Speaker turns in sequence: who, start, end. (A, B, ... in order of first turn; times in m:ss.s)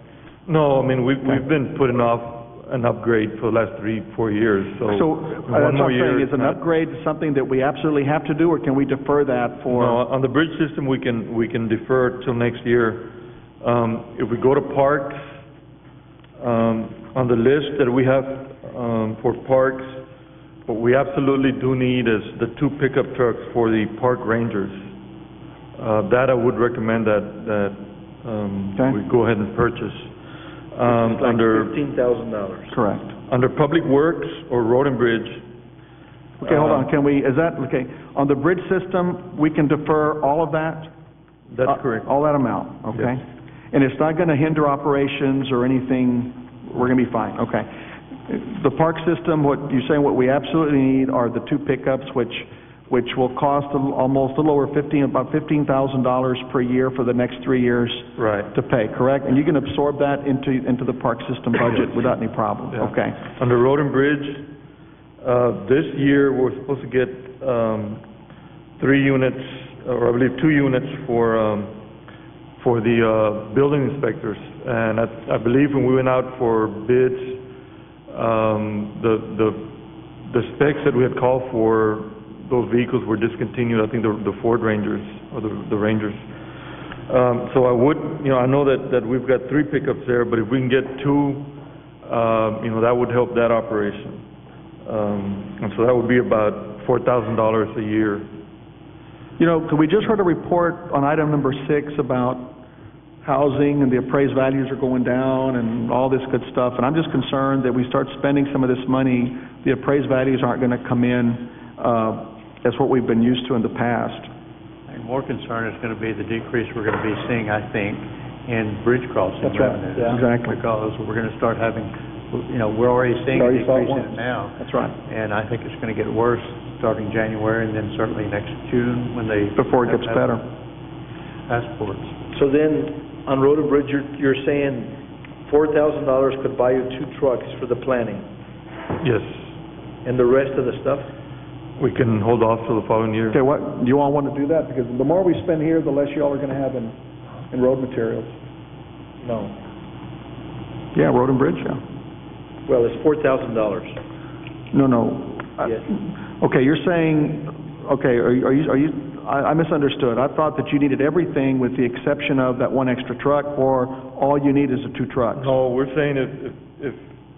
0:00.4-0:06.6 A
0:04.9-0:10.0 B
0:09.6-0:15.2 A
0:16.4-0:20.0 A
0:20.6-0:24.9 A
0:25.8-0:30.1 A
0:30.7-0:31.7 A
0:30.8-0:32.7 C
0:32.7-0:33.1 B
0:33.3-0:35.4 A
0:36.4-0:40.9 B
0:36.4-0:36.9 A
0:41.5-0:42.1 A
0:41.6-0:47.7 B
0:48.3-1:03.2 B
0:58.2-0:58.5 A
1:02.7-1:04.5 A
1:05.2-1:08.0 A
1:08.8-1:11.7 A
1:12.6-1:17.4 A
1:18.1-1:19.7 A
1:20.3-1:26.2 A
1:27.1-1:34.2 A
1:34.8-1:38.3 A
1:39.4-1:42.6 B
1:43.2-1:54.3 B
1:54.9-2:10.4 D
2:00.0-2:00.6 B
2:03.3-2:04.9 B
2:09.6-2:10.4 B
2:11.5-2:12.1 D
2:12.3-2:18.2 C
2:19.0-2:19.5 A
2:20.0-2:21.1 C
2:21.8-2:23.4 A
2:23.3-2:26.9 B
2:27.5-2:28.3 B
2:29.2-2:29.6 C
2:30.9-2:31.8 B
2:32.7-2:34.0 C
2:34.7-2:45.6 B
2:45.3-2:47.0 A